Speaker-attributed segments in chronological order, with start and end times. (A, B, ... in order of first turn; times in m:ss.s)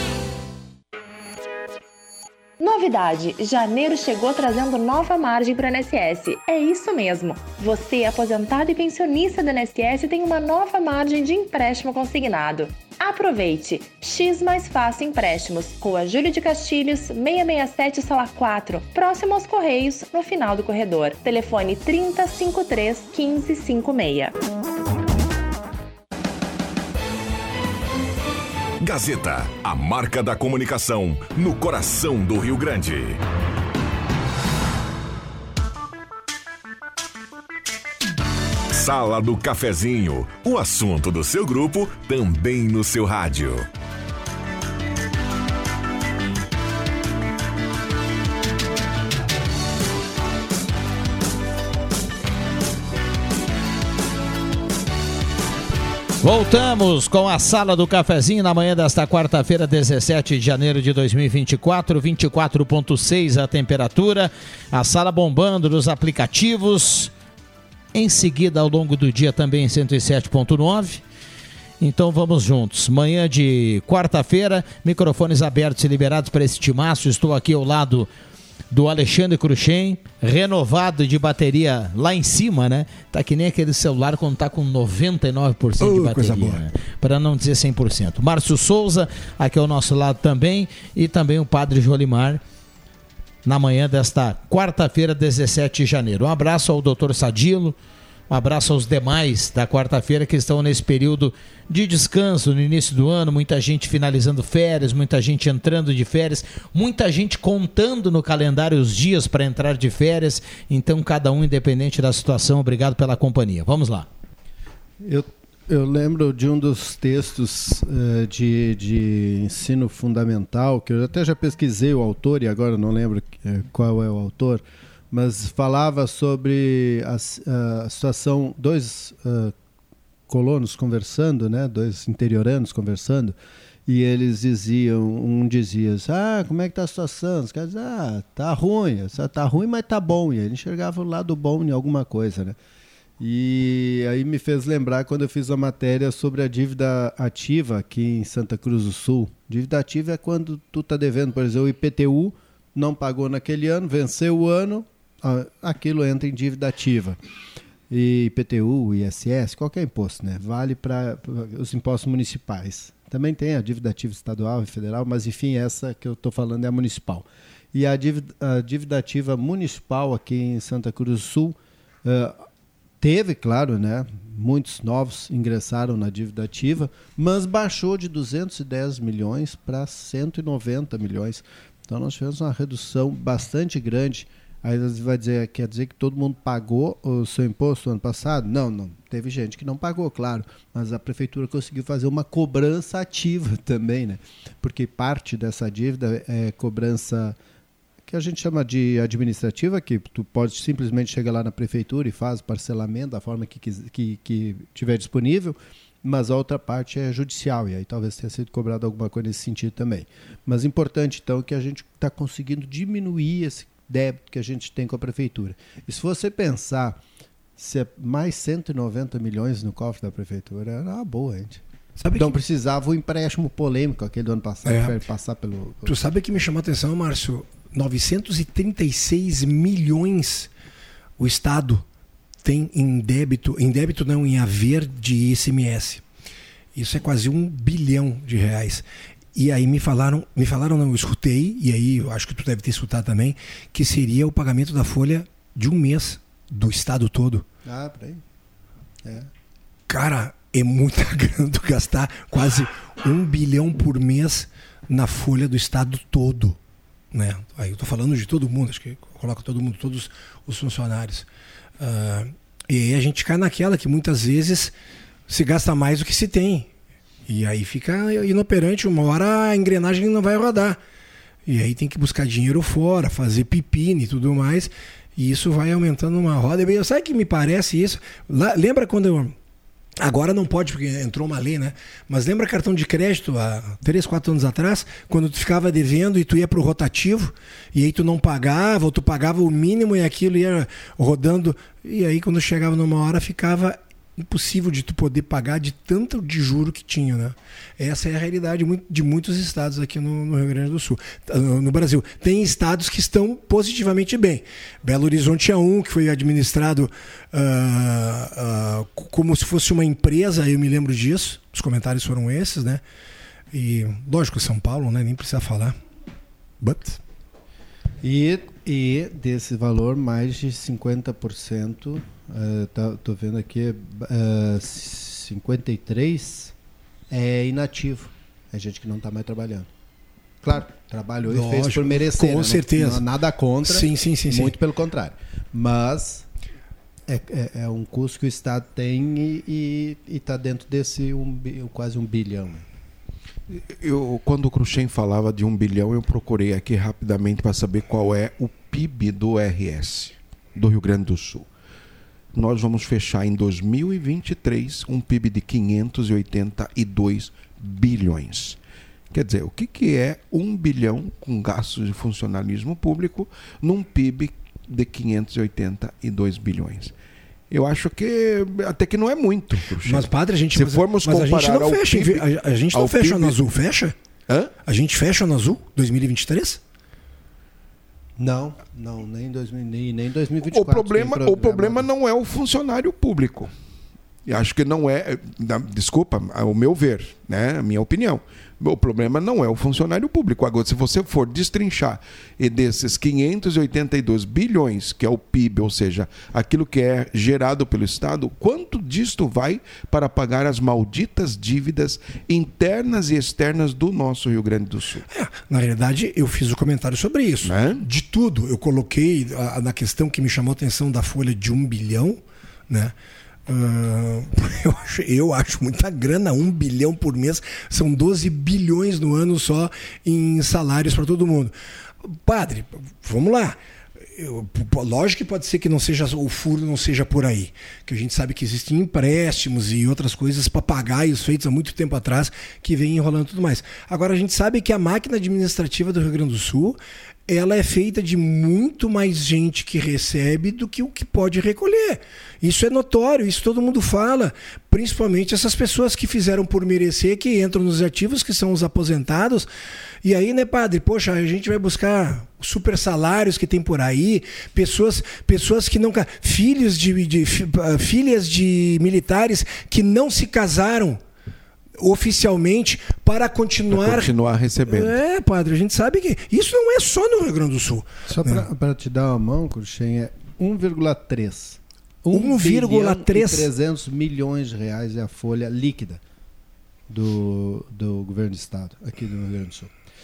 0:02.6-0:24.3 A
0:28.8-0:33.2 B
0:38.7-0:43.7 B
0:56.2-1:07.1 C
1:07.9-1:11.0 C
1:11.8-1:18.1 C
1:18.7-1:32.4 C
1:25.8-1:26.6 D
1:33.4-1:37.8 C
1:38.3-1:54.1 C
1:55.0-2:09.5 E
2:10.3-2:13.4 E
2:13.9-2:22.6 E
2:23.2-2:37.2 E
2:37.9-2:52.4 E
2:53.0-3:17.4 E
3:18.1-3:37.0 E
3:37.6-3:41.6 E
3:42.0-3:42.3 D
3:42.2-3:46.0 E
3:44.6-3:45.0 D
3:45.8-3:50.5 D
3:51.2-3:51.8 D
3:52.4-3:56.0 D
3:56.7-3:58.8 D
3:59.4-4:07.4 D
4:07.6-4:08.2 E
4:09.9-4:16.6 D
4:17.1-4:21.3 D
4:21.8-4:24.7 D
4:25.3-4:26.7 D
4:27.3-4:30.8 D
4:31.5-4:39.4 D
4:40.0-5:12.8 D
5:13.5-5:15.8 D
5:16.6-5:17.0 D
5:18.0-5:26.5 E
5:27.1-5:29.7 E
5:30.4-5:36.3 E
5:31.3-5:33.0 D
5:33.7-5:34.6 D
5:37.1-5:42.6 E
5:43.5-5:51.5 F
5:52.3-5:58.6 F
5:59.1-6:06.9 F
6:07.5-6:13.4 F
6:09.7-6:14.0 D
6:14.6-6:16.6 D
6:18.2-6:21.9 E
6:20.5-6:23.5 F
6:24.3-6:45.0 F
6:45.1-6:52.9 D
6:47.4-6:47.8 F
6:53.5-7:03.6 D
7:04.1-7:29.5 D
7:30.0-7:41.0 D
7:41.8-7:44.1 D
7:43.7-7:45.0 F
7:44.7-7:48.5 D
7:48.1-7:56.0 E
7:52.1-7:53.5 D
7:56.9-7:59.7 E